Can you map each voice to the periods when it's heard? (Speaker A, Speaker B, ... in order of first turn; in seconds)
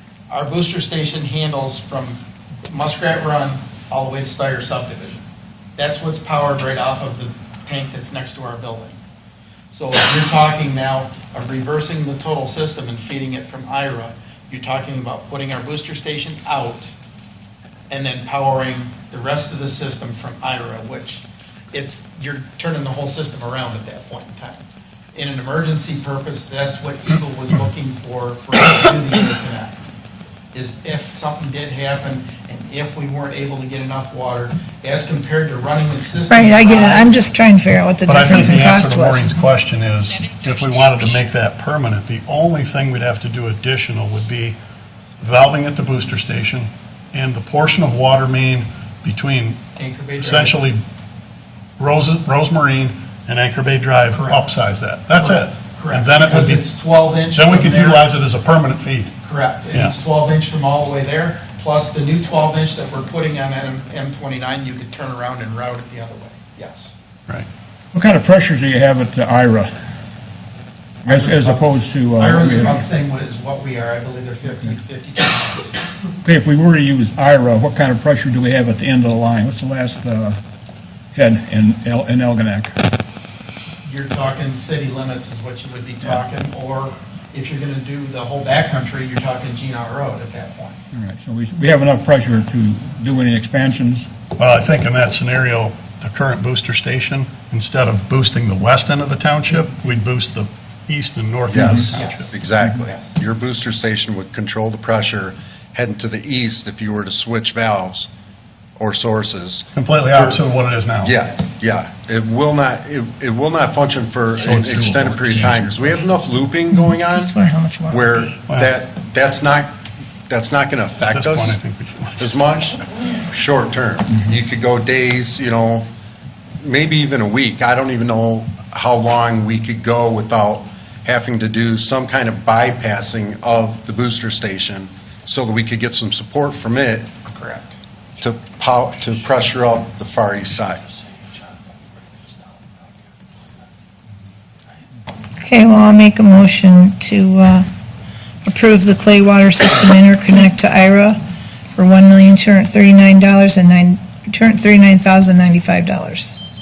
Speaker A: 0.3-5.2, 5.8-9.0, 9.7-16.9, 17.9-24.6, 25.1-29.9, 30.5-37.2, 49.8-50.6, 55.1-58.0, 59.2-66.9, 71.1-75.8, 83.8-90.8, 101.9-103.2, 137.2-137.8
Speaker B: 36.3-39.4, 116.7-118.3, 145.4-147.7, 148.4-151.2, 151.8-156.4
Speaker C: 38.1-44.6, 45.2-49.6, 50.2-50.8, 51.8-56.6, 57.3-59.1, 94.4-102.5, 109.7-111.1, 114.4-116.0, 118.5-118.7, 121.0-122.3
Speaker D: 67.9-69.7, 71.0-72.8, 76.2-80.4, 81.1-82.8, 90.9-94.1, 101.6-101.8
Speaker E: 101.5-108.1, 108.8-110.4, 111.0-117.3, 117.9-119.7, 120.3-121.6, 122.2-125.9, 126.6-137.1, 138.2-140.8